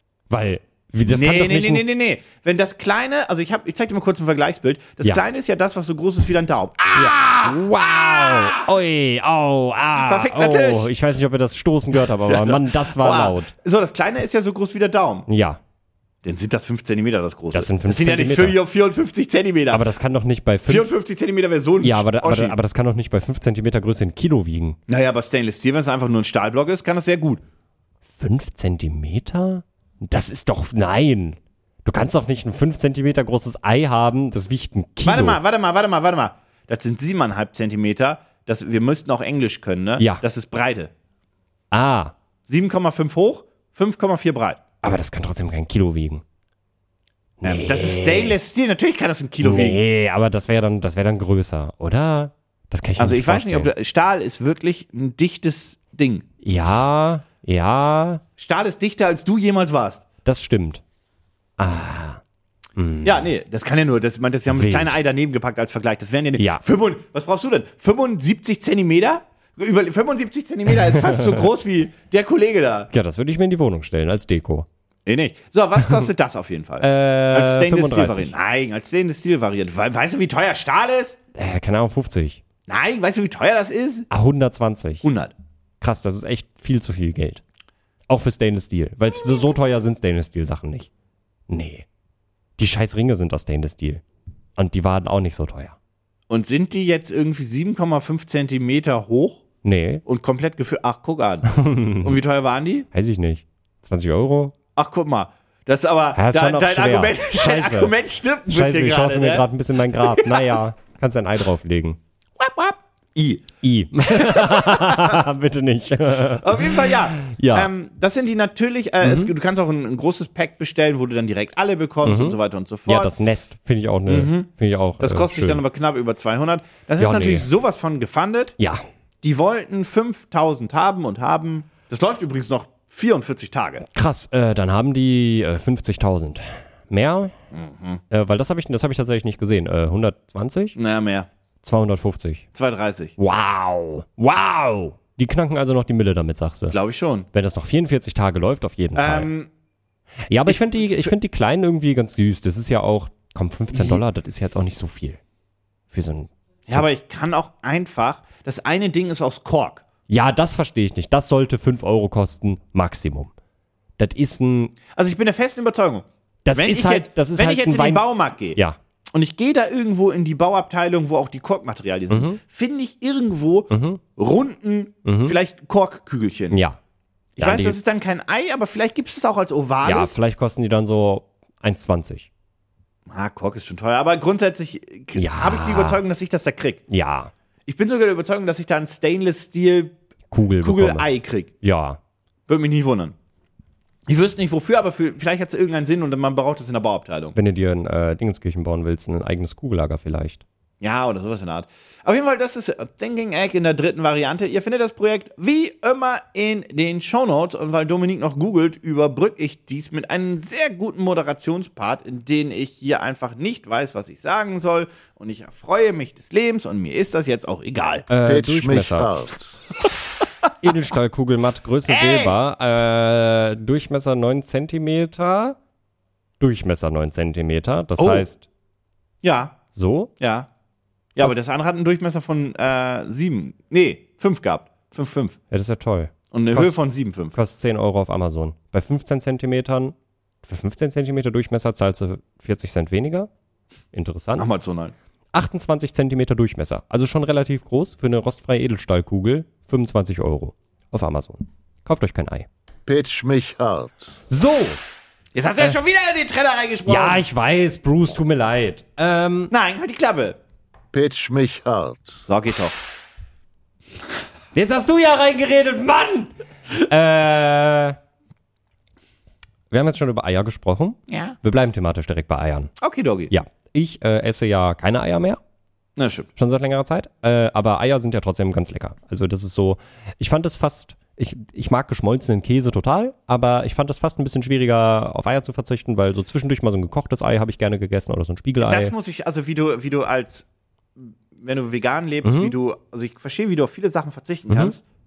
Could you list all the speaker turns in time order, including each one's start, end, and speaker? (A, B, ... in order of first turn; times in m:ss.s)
0:00.3-0:01.8 A
0:01.0-0:08.6 B
0:06.9-0:13.5 A
0:09.9-0:10.9 B
0:12.1-0:15.3 B
0:15.3-0:15.6 A
0:16.2-0:19.9 B
0:17.5-0:18.6 A
0:19.7-0:20.9 A
0:20.7-0:22.6 B
0:21.8-0:24.8 A
0:24.9-0:27.4 B
0:28.2-0:35.4 A
0:35.0-0:40.9 B
0:41.7-0:42.1 A
0:42.5-0:44.6 B
0:44.8-0:46.2 A
0:47.4-0:48.4 A
0:47.4-0:49.8 B
0:49.4-0:53.7 A
0:53.0-0:56.3 B
0:56.4-0:58.2 A
0:58.4-1:00.0 B
1:00.2-1:00.8 A
1:01.6-1:02.2 A
1:02.8-1:03.3 A
1:03.0-1:12.9 B
1:04.5-1:05.0 A
1:06.4-1:06.6 A
1:10.9-1:11.4 A
1:12.9-1:14.7 A
1:15.0-1:21.2 B
1:16.8-1:18.3 A
1:21.3-1:22.4 A
1:22.7-1:24.1 B
1:24.1-1:25.0 A
1:25.0-1:25.3 B
1:25.8-1:27.4 A
1:28.1-1:30.9 A
1:31.5-1:31.9 A
1:32.6-1:34.0 A
1:34.6-1:35.8 A
1:36.3-1:39.4 B
1:39.6-1:40.0 A
1:40.0-1:42.9 B
1:41.5-1:42.2 A
1:42.9-1:44.6 A
1:44.7-1:50.6 B
1:46.1-1:47.9 A
1:48.5-1:52.0 A
1:52.4-1:55.2 B
1:53.6-1:57.7 A
1:56.4-2:03.1 B
1:59.0-1:59.3 A
2:02.0-2:05.6 A
2:04.1-2:04.5 B
2:05.0-2:08.6 B
2:07.0-2:07.5 A
2:08.6-2:08.8 A
2:09.2-2:13.8 B
2:13.9-2:17.3 A
2:17.5-2:18.0 B
2:18.1-2:20.8 A
2:20.8-2:21.3 B
2:21.6-2:22.4 A
2:22.5-2:23.1 B
2:23.2-2:26.8 A
2:26.7-2:27.3 B
2:27.3-2:29.3 A
2:28.9-2:29.5 B
2:30.3-2:35.2 A
2:30.4-2:31.1 B
2:33.7-2:34.0 B
2:35.9-2:36.9 A
2:36.7-2:39.8 B
2:40.1-2:43.3 A
2:44.0-2:44.7 A
2:44.9-2:48.6 B
2:46.4-2:48.8 A
2:49.1-2:56.6 B
2:52.1-2:52.4 A
2:53.7-2:54.0 A
2:55.0-2:55.4 A
2:56.5-2:56.8 A
2:57.4-3:00.1 B
2:57.4-2:57.8 A
2:59.8-3:02.3 A
3:03.1-3:06.8 B
3:05.2-3:06.0 A
3:06.9-3:07.3 A
3:07.7-3:09.9 B
3:10.3-3:11.1 A
3:10.6-3:11.5 B
3:11.6-3:12.0 A
3:12.5-3:13.1 B
3:14.1-3:17.3 B
3:17.3-3:20.4 A
3:20.8-3:38.1 B
3:38.1-3:39.1 A
3:38.2-3:39.6 C
3:40.6-3:45.6 A
3:41.9-3:42.3 B
3:46.4-3:48.4 A
3:48.0-3:48.3 B
3:49.2-3:49.6 B
3:49.7-3:50.1 A
3:50.2-3:50.5 B
3:51.1-3:55.4 B
3:55.5-3:56.8 A
3:56.3-3:57.4 B
3:57.3-4:03.3 A
4:03.9-4:04.5 A
4:04.4-4:04.9 B
4:05.3-4:12.5 A
4:12.9-4:14.2 C
4:14.3-4:14.8 A
4:15.3-4:17.2 B
4:16.9-4:19.5 A
4:19.5-4:20.4 B
4:20.9-4:22.3 C
4:22.3-4:22.7 B
4:24.5-4:28.0 A
4:29.7-4:32.7 A
4:31.1-4:31.4 B
4:32.8-4:33.3 B
4:33.3-4:35.4 A
4:36.0-4:36.3 B
4:36.4-4:48.9 A
4:48.6-4:50.4 B
4:51.0-4:54.8 B
4:52.2-4:52.5 A
4:54.5-4:54.7 A